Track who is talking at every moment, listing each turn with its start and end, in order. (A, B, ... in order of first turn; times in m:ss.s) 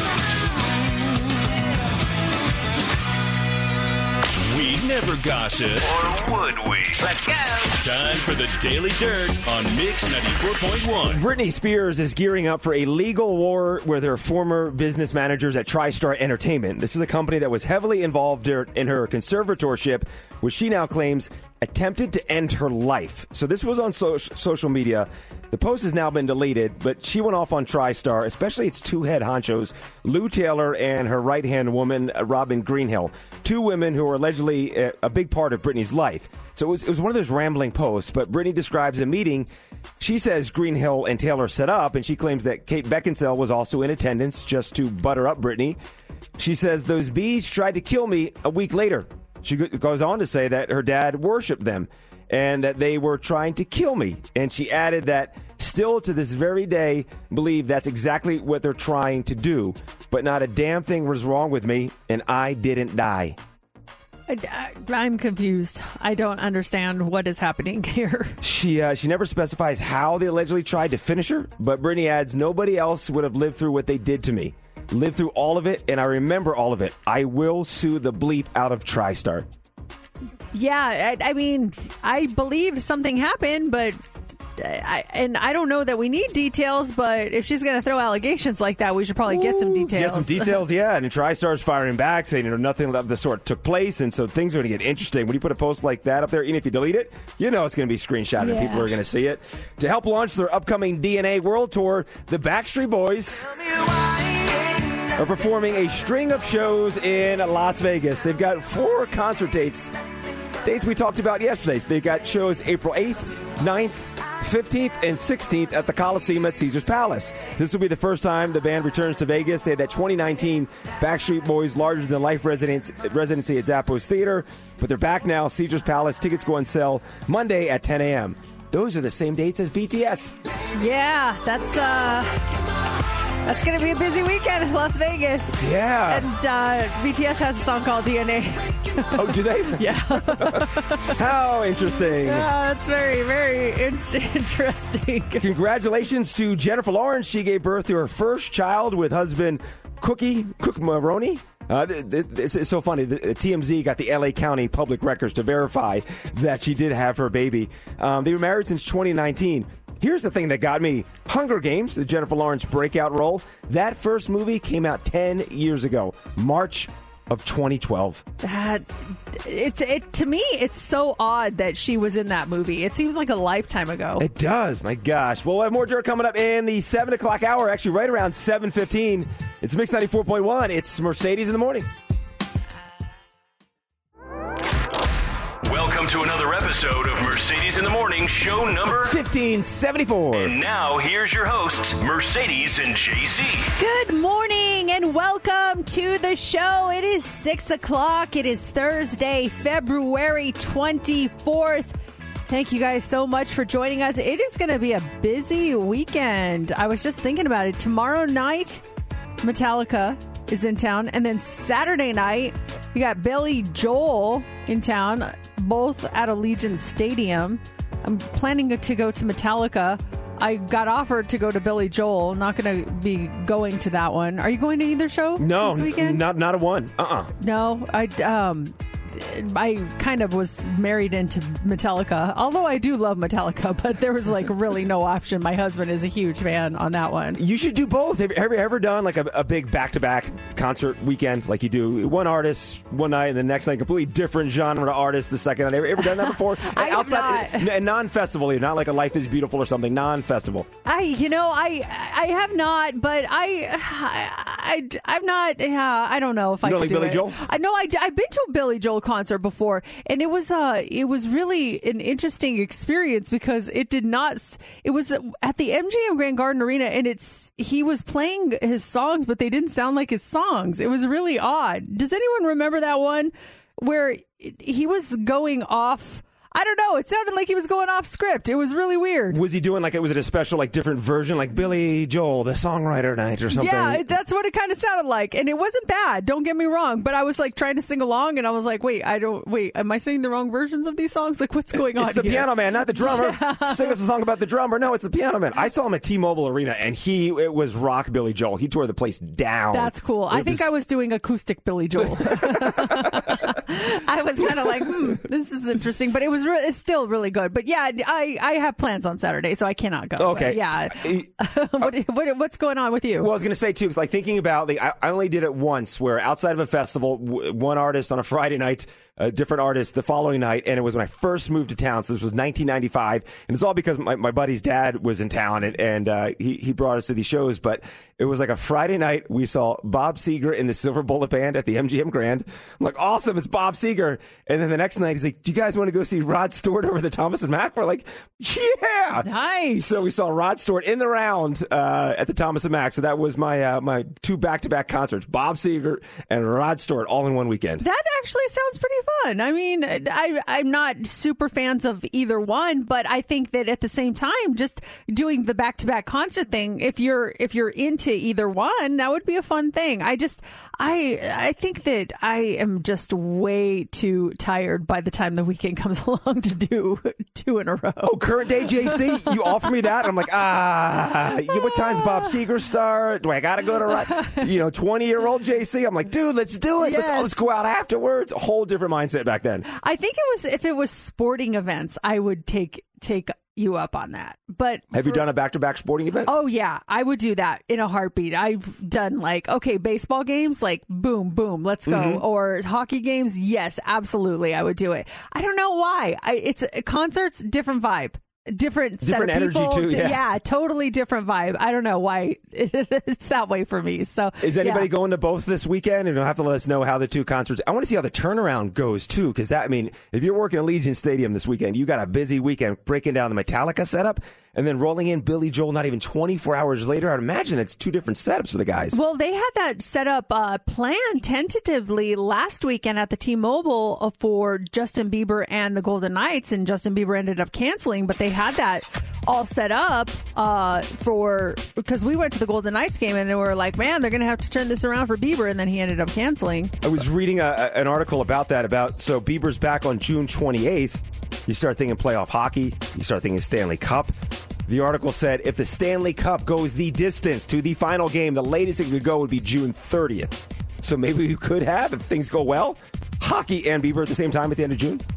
0:04.5-0:11.2 A
0:11.1-0:39.5 B
0:40.0-0:45.8 B
0:46.4-1:03.4 B
1:04.3-1:08.4 C
1:08.4-1:19.5 B
1:20.5-1:24.0 C
1:24.6-1:30.6 C
1:29.3-1:43.6 B
1:38.4-1:39.0 C
1:45.2-1:49.9 B
1:50.6-2:10.4 B
2:10.8-2:12.5 C
2:13.4-2:19.2 C
2:15.6-2:16.3 B
2:19.1-2:22.5 B
2:19.7-2:21.1 C
2:22.2-2:25.5 C
2:25.4-2:48.2 B
2:48.4-2:54.2 C
2:54.2-3:01.9 B
3:05.6-3:09.2 A
3:09.0-3:10.6 B
3:10.4-3:13.7 A
3:13.8-3:28.8 C
3:29.4-3:46.2 C
3:45.4-3:47.3 B
3:47.4-3:57.4 C
3:57.4-4:10.7 B
4:06.0-4:07.7 C
4:10.9-4:39.4 C
4:16.6-4:17.4 B
4:39.3-4:44.0 B
4:43.5-4:54.0 C
4:51.8-5:00.7 B
4:59.7-5:13.3 C
5:02.0-5:03.4 B
5:04.4-5:05.1 B
5:10.2-5:11.3 B
5:13.2-5:39.3 B
5:39.2-5:40.0 C
5:39.8-5:47.8 B
5:47.8-6:10.0 C
6:08.0-6:19.7 B
6:11.5-6:12.4 C
6:13.9-6:14.4 C
6:16.8-6:17.4 C
6:19.7-6:25.2 C
6:24.9-6:26.3 B
6:26.3-6:44.9 C
6:31.9-6:32.2 B
6:39.0-6:40.2 B
6:44.4-6:59.0 B
6:58.9-7:16.8 C
7:16.8-7:24.1 B
7:24.7-7:35.0 B